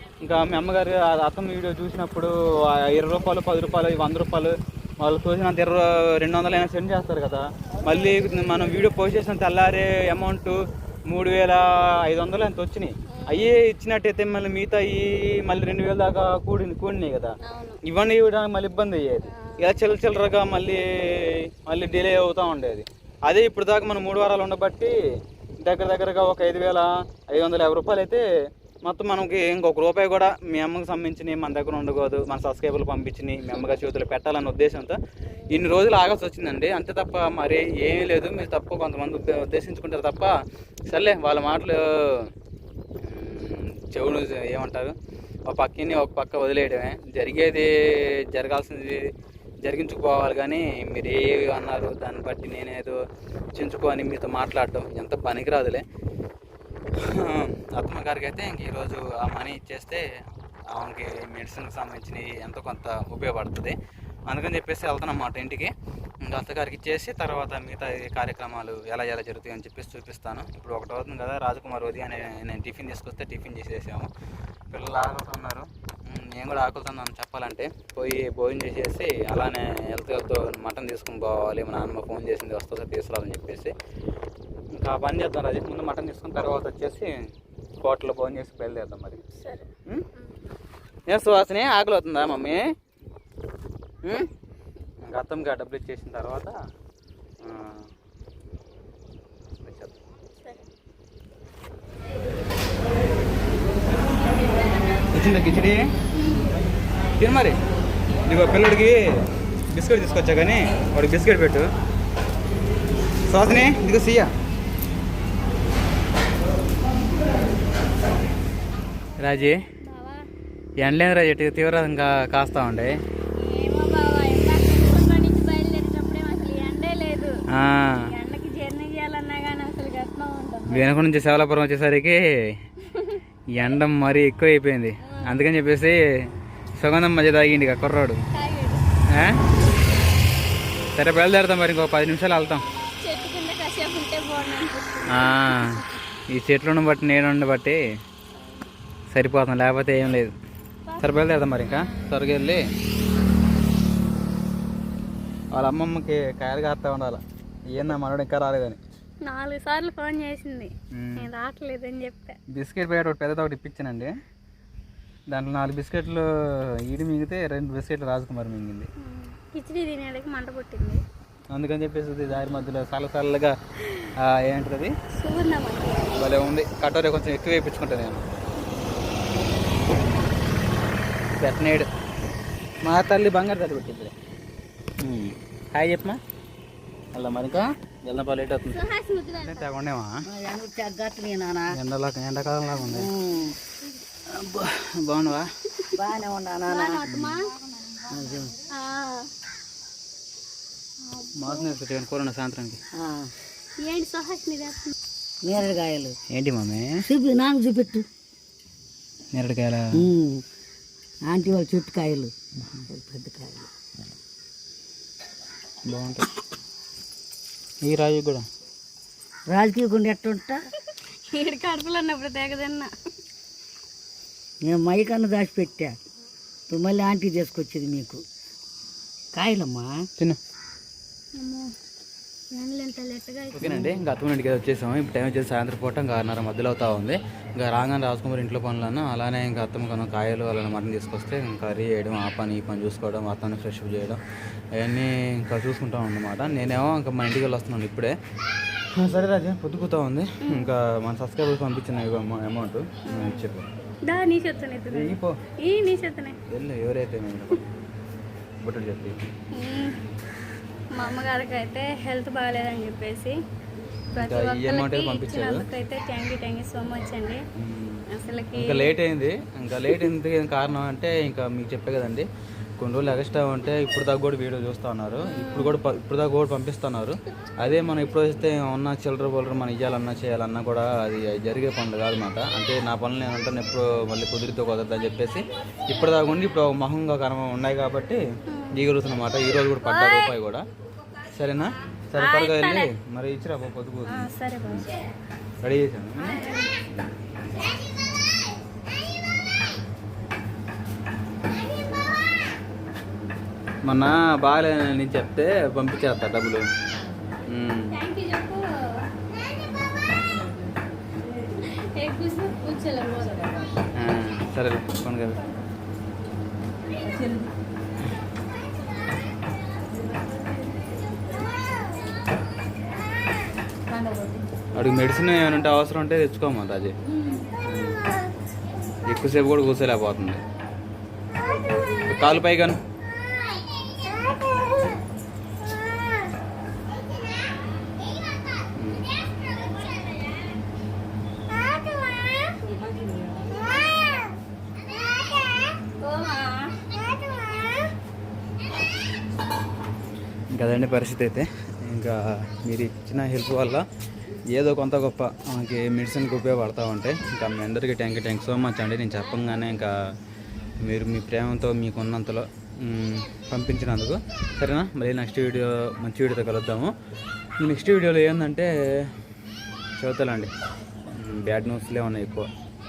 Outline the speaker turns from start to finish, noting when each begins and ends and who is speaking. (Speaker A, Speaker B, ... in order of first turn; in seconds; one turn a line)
Speaker A: 0.2-24.9
Speaker B: 7.9-8.6
Speaker B: 13.1-13.6
Speaker B: 17.4-17.8
Speaker B: 19.2-19.8
Speaker A: 25.6-28.2
Speaker A: 28.8-40.3
Speaker B: 35.3-35.6
Speaker A: 40.9-42.3
Speaker A: 43.0-45.0
Speaker A: 45.5-49.0
Speaker A: 49.6-53.0
Speaker A: 53.5-55.8
Speaker A: 57.0-60.0
Speaker A: 60.7-63.8
Speaker A: 64.3-65.7
Speaker A: 66.2-74.1
Speaker A: 74.7-83.7
Speaker A: 84.7-87.1
Speaker A: 87.8-89.2
Speaker B: 89.3-89.7
Speaker A: 91.1-92.6
Speaker A: 94.0-94.3
Speaker A: 95.0-96.5
Speaker A: 97.4-97.9
Speaker A: 99.6-99.9
Speaker A: 105.1-105.9
Speaker B: 106.1-106.5
Speaker A: 107.2-107.6
Speaker A: 108.3-109.0
Speaker A: 109.7-111.7
Speaker A: 113.3-114.3
Speaker A: 119.2-119.6
Speaker B: 119.7-120.3
Speaker A: 120.8-123.0
Speaker B: 123.3-127.4
Speaker A: 127.5-128.1
Speaker B: 128.0-131.0
Speaker A: 130.7-132.2
Speaker B: 132.8-133.2
Speaker A: 133.5-136.0
Speaker B: 135.0-135.4
Speaker A: 136.8-138.2
Speaker B: 138.3-138.8
Speaker A: 139.1-139.4
Speaker A: 140.9-142.6
Speaker B: 143.0-145.9
Speaker A: 145.1-147.8
Speaker B: 148.3-148.7
Speaker A: 149.1-150.3
Speaker A: 151.0-152.6
Speaker B: 151.7-152.1
Speaker A: 155.5-158.8
Speaker B: 159.2-162.4
Speaker A: 160.9-161.3
Speaker A: 162.5-164.1
Speaker A: 165.3-166.3
Speaker A: 166.9-168.9
Speaker B: 169.0-171.0
Speaker A: 171.5-173.6
Speaker A: 174.2-174.9
Speaker B: 175.1-176.1
Speaker A: 176.1-178.2
Speaker A: 181.4-181.9
Speaker A: 182.8-184.1
Speaker A: 185.0-186.2
Speaker A: 187.1-190.2
Speaker B: 188.7-189.7
Speaker C: 190.2-191.7
Speaker A: 191.7-193.1
Speaker C: 192.9-193.6
Speaker A: 194.3-195.5
Speaker C: 195.9-197.1
Speaker B: 196.7-197.5
Speaker A: 197.1-197.4
Speaker C: 198.1-198.6
Speaker B: 198.7-199.3
Speaker B: 201.1-201.7
Speaker A: 201.3-202.8
Speaker C: 203.0-203.3
Speaker B: 203.8-204.9
Speaker C: 205.4-206.2
Speaker A: 206.3-207.0
Speaker C: 207.0-208.1
Speaker A: 209.3-210.1
Speaker C: 209.9-210.4
Speaker C: 211.3-212.3
Speaker C: 212.9-213.7
Speaker A: 215.9-216.2
Speaker A: 217.8-218.4
Speaker C: 219.5-220.6
Speaker B: 221.3-222.9
Speaker C: 224.6-225.9
Speaker C: 226.7-228.2
Speaker C: 229.3-230.1
Speaker B: 231.3-231.7
Speaker B: 232.5-234.0
Speaker A: 233.5-244.2
Speaker A: 244.8-248.2
Speaker A: 248.9-253.7
Speaker B: 250.4-250.7
Speaker B: 253.1-253.5
Speaker B: 254.1-256.4
Speaker A: 254.9-255.3
Speaker A: 256.5-257.6
Speaker A: 258.6-259.2
Speaker B: 259.5-260.0
Speaker B: 260.9-263.4
Speaker B: 264.1-267.4
Speaker A: 264.2-265.6
Speaker A: 267.6-268.0
Speaker B: 268.1-268.9
Speaker A: 268.5-272.3
Speaker A: 272.8-288.2
Speaker B: 275.2-275.8
Speaker B: 288.5-288.9
Speaker A: 288.7-290.6
Speaker B: 289.8-290.3
Speaker A: 291.3-294.3
Speaker B: 292.2-292.9
Speaker B: 294.1-294.9
Speaker A: 295.6-296.4
Speaker B: 296.2-296.7
Speaker A: 303.8-306.6
Speaker A: 307.5-308.0
Speaker B: 307.9-309.1
Speaker B: 311.4-313.7
Speaker A: 314.0-315.4
Speaker B: 317.1-317.4
Speaker B: 323.9-324.4
Speaker A: 324.7-326.9
Speaker A: 327.6-328.0
Speaker A: 329.1-330.4
Speaker A: 332.0-332.8
Speaker A: 338.8-339.0
Speaker B: 346.0-346.9
Speaker A: 350.5-353.8
Speaker A: 354.5-359.9
Speaker A: 360.8-366.9
Speaker A: 367.6-368.7
Speaker A: 370.0-370.5
Speaker A: 371.1-372.5